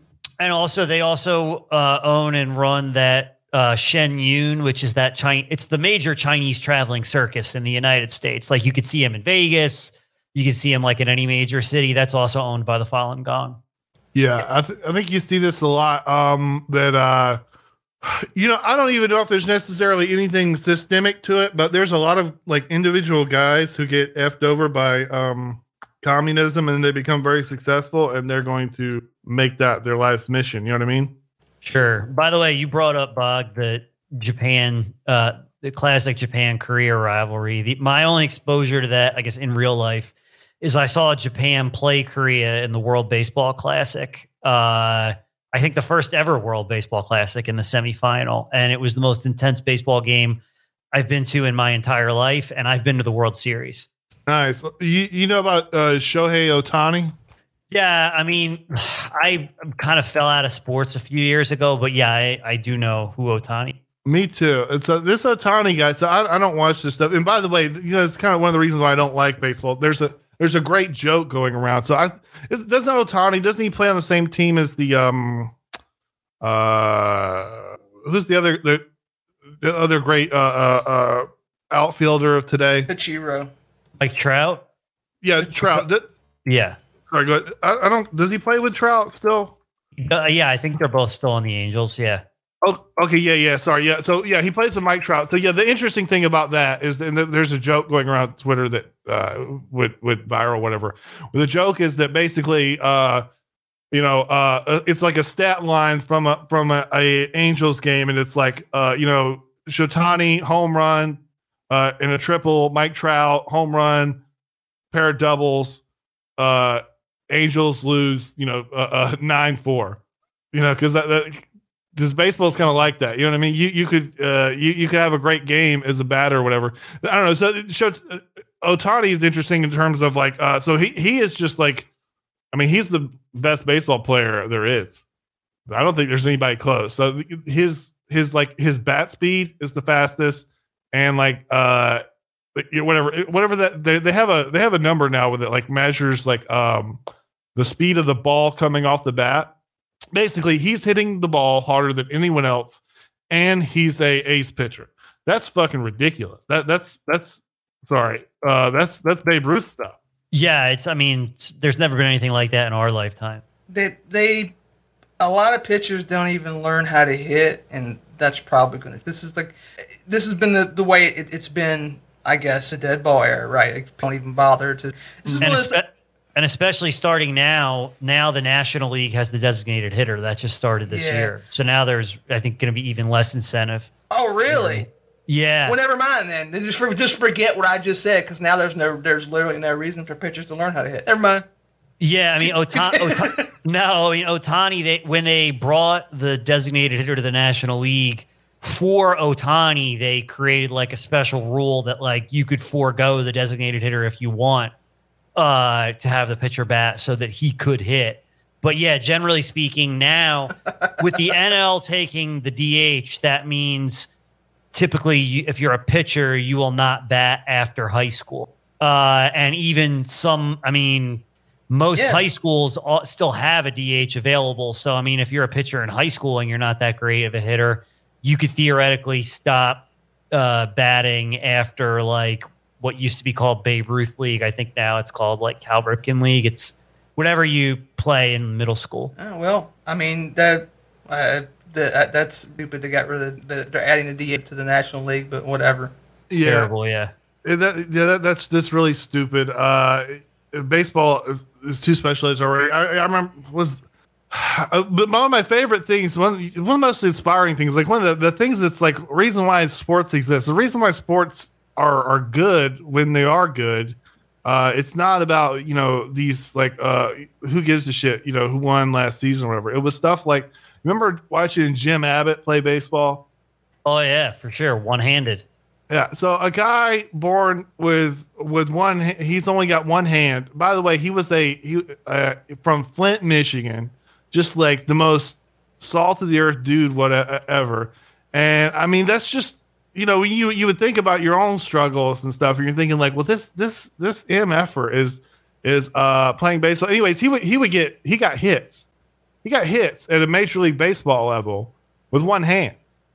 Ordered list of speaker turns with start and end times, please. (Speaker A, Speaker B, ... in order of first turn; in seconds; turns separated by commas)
Speaker A: 0.4-13.6, Speaker B: 14.1-17.4, Speaker B: 18.0-31.1, Speaker A: 31.6-50.4, Speaker A: 50.9-53.9, Speaker B: 54.3-57.1, Speaker A: 57.7-63.8, Speaker B: 64.0-75.5, Speaker B: 76.4-78.8, Speaker B: 79.6-82.9, Speaker C: 82.9-83.5, Speaker A: 84.0-84.6, Speaker B: 85.2-86.1, Speaker A: 85.6-85.8, Speaker A: 86.5-86.8, Speaker B: 87.1-89.5, Speaker A: 90.0-92.2, Speaker B: 92.6-103.2, Speaker B: 103.9-111.2, Speaker B: 111.7-114.2, Speaker B: 114.9-115.8, Speaker B: 116.4-120.0, Speaker B: 120.5-131.9, Speaker B: 132.5-135.0, Speaker B: 135.7-142.0, Speaker B: 142.6-147.0, Speaker B: 147.6-149.5, Speaker B: 150.1-159.9, Speaker A: 160.3-163.4, Speaker C: 163.7-164.5, Speaker C: 165.2-175.8, Speaker A: 175.4-183.9, Speaker C: 180.9-181.3, Speaker C: 184.1-184.9, Speaker A: 184.5-185.8, Speaker C: 185.7-191.4, Speaker A: 192.0-204.7, Speaker C: 192.4-193.5, Speaker A: 205.4-214.1, Speaker A: 214.7-239.1, Speaker C: 221.9-222.2, Speaker C: 239.2-245.9, Speaker B: 246.3-246.7, Speaker A: 246.3-247.1, Speaker B: 247.4-273.2, Speaker A: 273.9-275.4, Speaker B: 275.9-298.9, Speaker B: 299.4-302.8